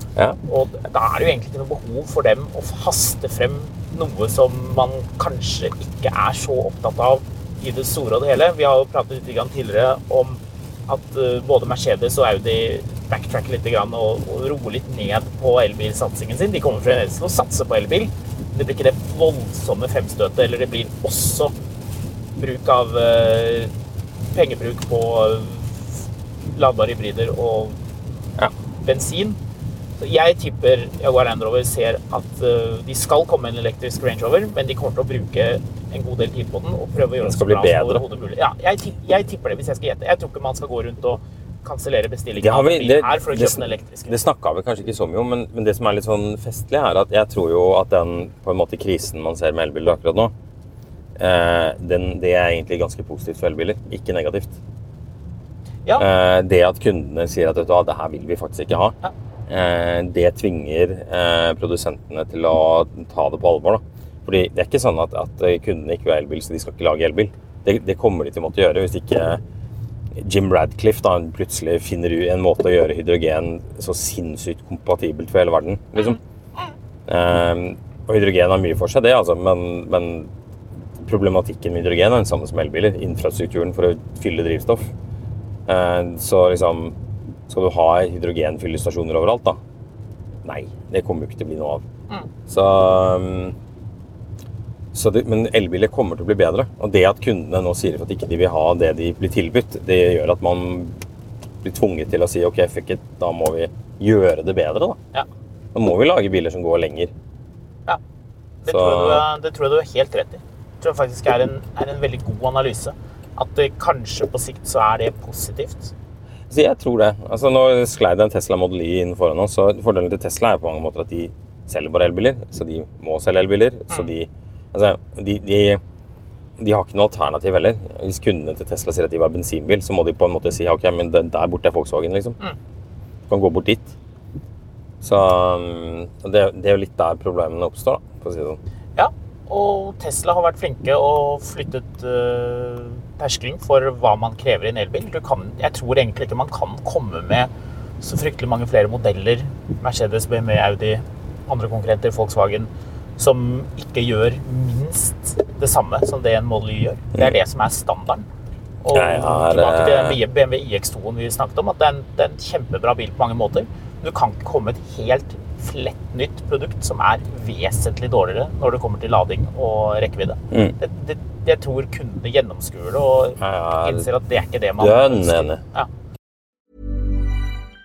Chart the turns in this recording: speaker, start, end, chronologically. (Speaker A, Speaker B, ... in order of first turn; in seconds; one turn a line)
Speaker A: 0.5-21.5
Speaker A: 22.4-23.7
Speaker A: 24.3-27.8
Speaker A: 28.8-29.4
Speaker A: 30.0-44.3
Speaker B: 37.2-38.0
Speaker B: 42.4-50.3
Speaker B: 51.2-54.5
Speaker B: 56.0-59.0
Speaker B: 59.5-69.4
Speaker B: 70.1-76.2
Speaker A: 76.0-76.7
Speaker B: 77.1-80.3
Speaker B: 81.0-84.9
Speaker B: 85.7-87.0
Speaker B: 87.5-89.6
Speaker B: 90.4-91.8
Speaker B: 92.5-93.6
Speaker B: 94.9-101.0
Speaker B: 101.6-105.0
Speaker B: 105.7-107.1
Speaker A: 108.6-115.9
Speaker B: 108.7-109.3
Speaker B: 116.5-125.8
Speaker B: 126.6-132.4
Speaker B: 133.3-133.9
Speaker B: 135.0-138.6
Speaker A: 139.0-147.5
Speaker A: 148.0-158.3
Speaker A: 158.8-175.9
Speaker B: 158.9-160.2
Speaker B: 170.5-170.8
Speaker B: 173.4-174.1
Speaker B: 174.8-175.6